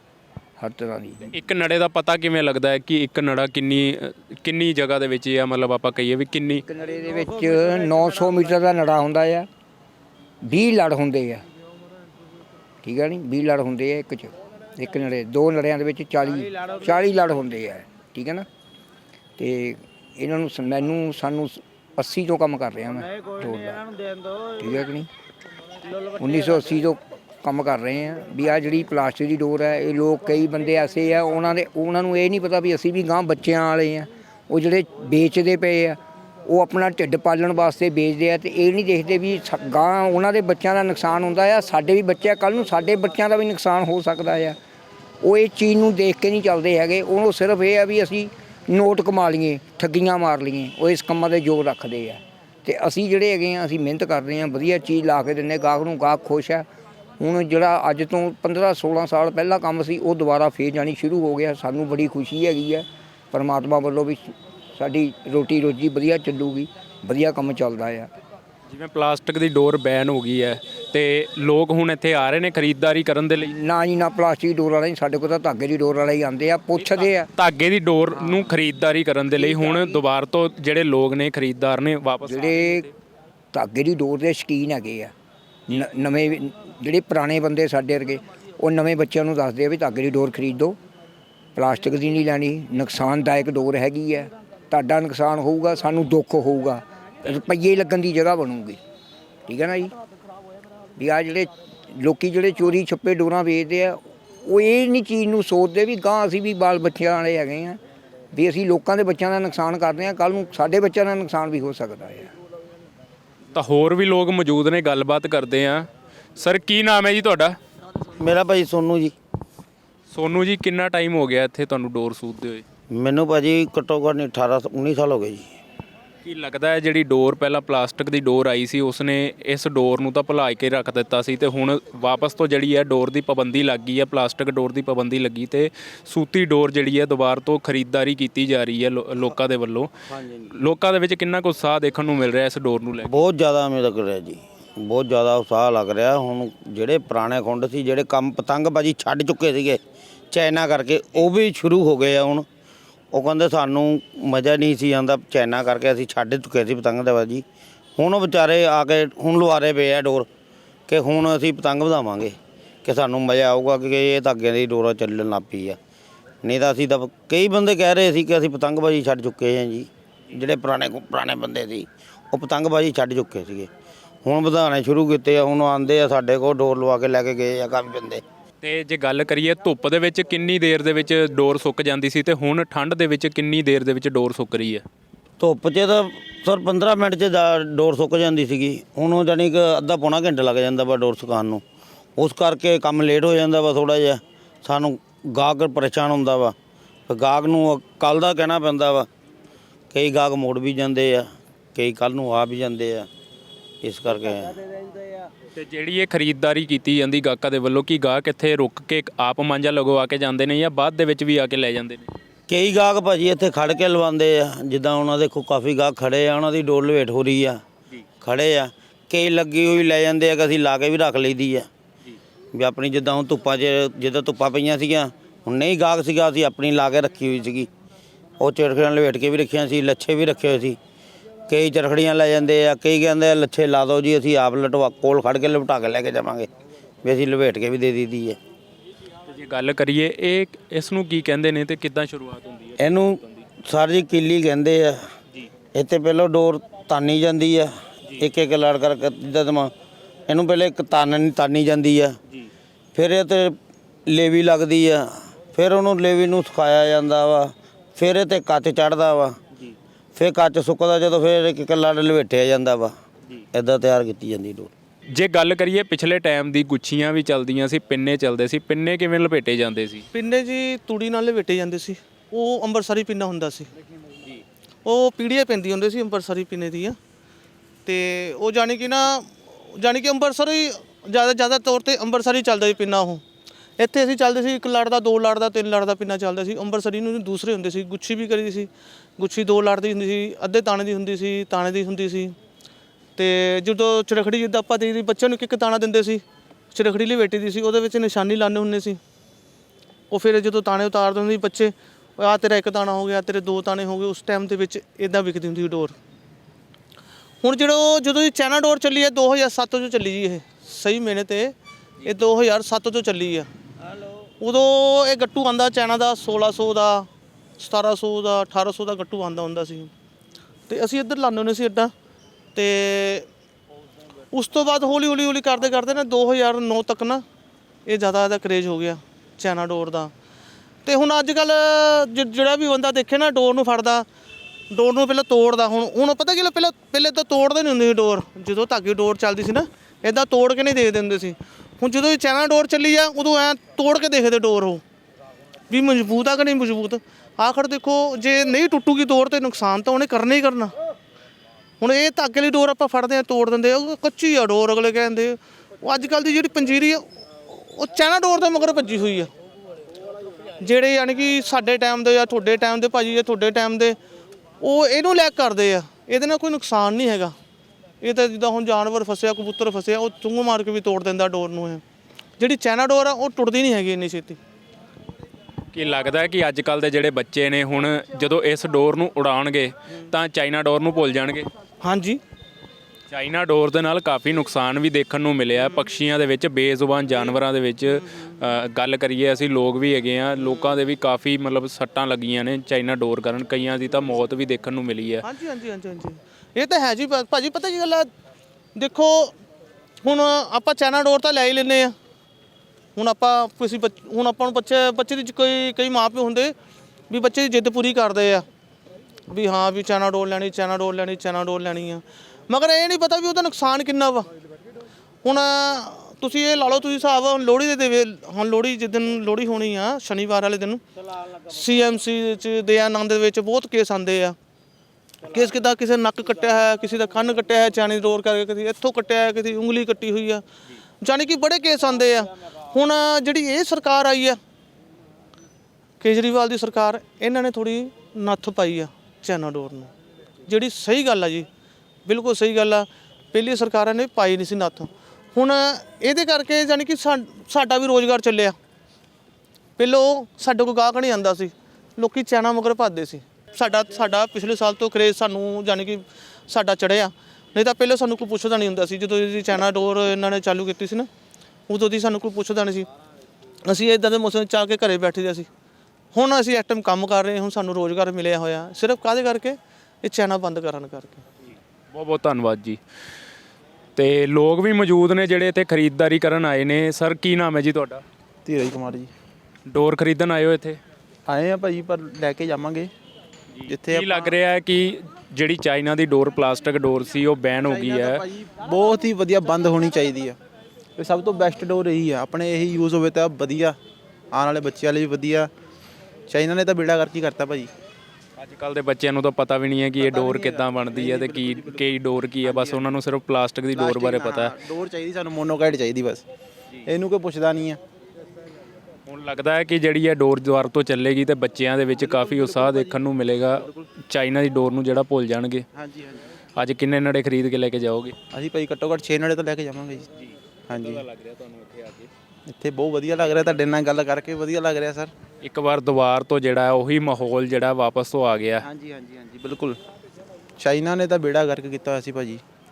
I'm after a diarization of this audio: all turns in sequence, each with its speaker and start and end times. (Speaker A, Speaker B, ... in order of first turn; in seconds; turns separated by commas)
Speaker A: 0.6-1.4, Speaker B: 1.3-6.6, Speaker A: 6.7-9.5, Speaker A: 10.4-11.4, Speaker A: 12.8-18.4, Speaker A: 19.4-23.9, Speaker A: 24.6-25.1, Speaker A: 26.1-44.6, Speaker A: 45.2-56.6, Speaker A: 57.2-68.1, Speaker B: 68.7-73.5, Speaker A: 73.4-77.3, Speaker B: 77.4-82.9, Speaker A: 82.2-82.9, Speaker A: 83.5-85.1, Speaker A: 85.7-90.8, Speaker A: 91.6-98.8, Speaker A: 99.5-99.9, Speaker A: 101.0-107.8, Speaker A: 108.3-112.3, Speaker B: 113.5-115.9, Speaker B: 116.4-117.6, Speaker C: 118.2-119.1, Speaker B: 120.1-122.6, Speaker C: 122.9-125.5, Speaker B: 126.2-139.9, Speaker C: 140.1-140.5, Speaker B: 140.6-143.2, Speaker C: 143.1-152.4, Speaker C: 153.1-157.4, Speaker C: 158.0-160.3, Speaker C: 160.9-165.8, Speaker C: 166.4-173.7, Speaker C: 174.2-178.2, Speaker B: 178.6-184.8, Speaker C: 185.4-191.6, Speaker C: 192.2-196.6, Speaker C: 197.1-199.1, Speaker C: 199.9-203.1, Speaker C: 203.8-204.6, Speaker B: 205.6-212.1, Speaker C: 212.5-217.6, Speaker C: 218.2-221.7, Speaker C: 222.5-227.7, Speaker C: 228.4-230.8, Speaker C: 231.5-236.5, Speaker C: 237.0-238.4, Speaker B: 239.3-243.3, Speaker C: 242.8-245.0, Speaker C: 245.7-249.7, Speaker C: 250.3-252.2, Speaker C: 252.9-253.6, Speaker C: 254.1-259.4, Speaker C: 260.1-262.9, Speaker C: 263.5-264.7, Speaker B: 265.1-270.1, Speaker D: 270.1-273.7, Speaker D: 274.9-277.0, Speaker D: 277.9-283.2, Speaker D: 283.8-292.4, Speaker D: 293.2-299.0, Speaker D: 300.1-306.0, Speaker D: 307.4-311.5, Speaker D: 312.1-313.5, Speaker D: 314.4-317.1, Speaker D: 317.6-319.9, Speaker D: 320.7-321.9, Speaker D: 322.6-323.3, Speaker D: 324.3-327.2, Speaker D: 327.9-330.1, Speaker D: 330.9-334.1, Speaker D: 334.7-344.8, Speaker D: 345.7-350.7, Speaker D: 351.8-357.1, Speaker D: 357.6-359.3, Speaker D: 360.6-364.0, Speaker D: 364.6-367.3, Speaker D: 368.0-371.8, Speaker D: 372.4-374.4, Speaker B: 375.7-381.5, Speaker D: 381.8-382.2, Speaker B: 383.1-395.2, Speaker D: 395.2-398.1, Speaker D: 398.8-399.3, Speaker D: 400.0-401.9, Speaker D: 403.0-406.5, Speaker D: 407.1-408.4, Speaker D: 409.3-414.3, Speaker D: 415.2-420.8, Speaker D: 421.5-424.4, Speaker D: 425.3-430.4, Speaker D: 431.0-434.4, Speaker D: 436.0-439.9, Speaker D: 440.5-441.5, Speaker D: 442.1-448.6, Speaker D: 449.8-461.1, Speaker D: 461.7-462.9, Speaker D: 463.6-465.5, Speaker D: 466.1-471.2, Speaker B: 471.9-472.8, Speaker B: 473.9-478.0, Speaker E: 478.4-479.1, Speaker B: 479.7-480.8, Speaker E: 481.3-482.9, Speaker B: 483.6-488.2, Speaker E: 483.7-484.3, Speaker E: 487.6-490.4, Speaker E: 491.0-493.8, Speaker E: 494.3-495.5, Speaker E: 496.3-497.7, Speaker B: 498.4-504.6, Speaker E: 500.0-501.9, Speaker E: 502.4-502.9, Speaker E: 503.8-506.2, Speaker E: 506.9-507.8, Speaker B: 509.1-515.6, Speaker E: 511.9-513.0, Speaker E: 513.5-513.9, Speaker E: 515.8-516.2, Speaker B: 516.6-518.1, Speaker E: 518.3-520.1, Speaker B: 520.2-522.1, Speaker E: 520.7-521.0, Speaker E: 522.5-525.1, Speaker B: 525.4-528.6, Speaker E: 528.6-529.8, Speaker E: 530.6-532.4